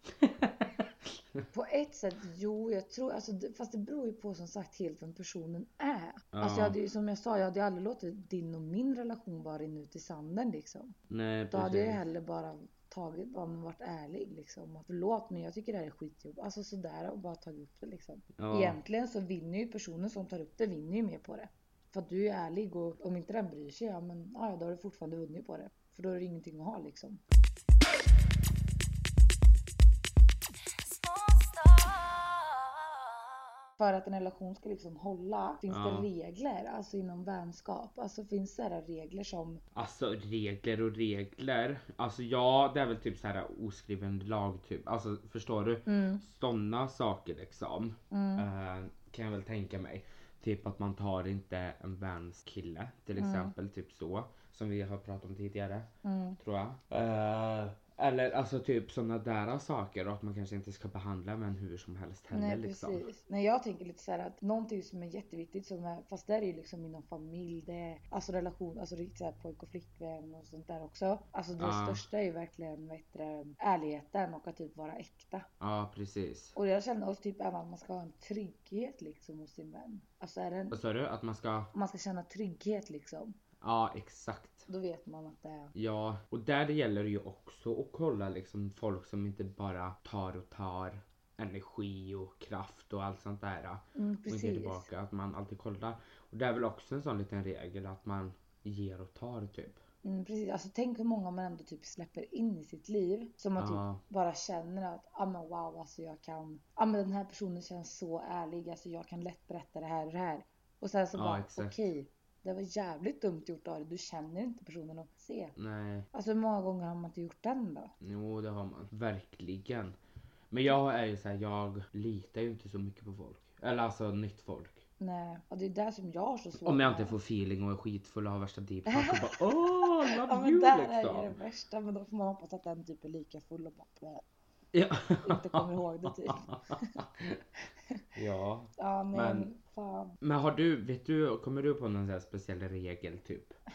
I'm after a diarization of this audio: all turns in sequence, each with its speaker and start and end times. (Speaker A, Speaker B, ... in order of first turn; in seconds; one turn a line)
Speaker A: 0.2-1.4
Speaker B: 1.5-10.9
Speaker A: 6.3-6.8
Speaker A: 11.1-12.0
Speaker B: 11.5-27.2
Speaker A: 18.4-18.8
Speaker B: 33.8-39.6
Speaker A: 35.7-36.1
Speaker A: 39.7-55.9
Speaker B: 45.9-46.2
Speaker B: 48.1-48.5
Speaker B: 53.1-53.5
Speaker B: 56.0-56.4
Speaker A: 56.4-63.0
Speaker B: 62.3-75.5
Speaker A: 71.6-72.0
Speaker A: 75.6-76.5
Speaker B: 76.5-80.8
Speaker A: 80.7-81.7
Speaker B: 81.7-83.3
Speaker A: 83.6-84.7
Speaker B: 84.7-85.7
Speaker A: 85.7-99.8
Speaker B: 94.0-94.9
Speaker B: 100.0-115.5
Speaker A: 103.6-104.0
Speaker A: 111.1-111.8
Speaker A: 115.5-116.1
Speaker B: 116.1-117.9
Speaker A: 118.0-119.9
Speaker A: 120.5-124.8
Speaker B: 125.0-127.1
Speaker A: 126.6-131.3
Speaker B: 128.9-134.2
Speaker A: 134.7-137.4
Speaker B: 135.2-137.0
Speaker A: 138.2-139.5
Speaker B: 138.8-140.2
Speaker A: 140.2-143.6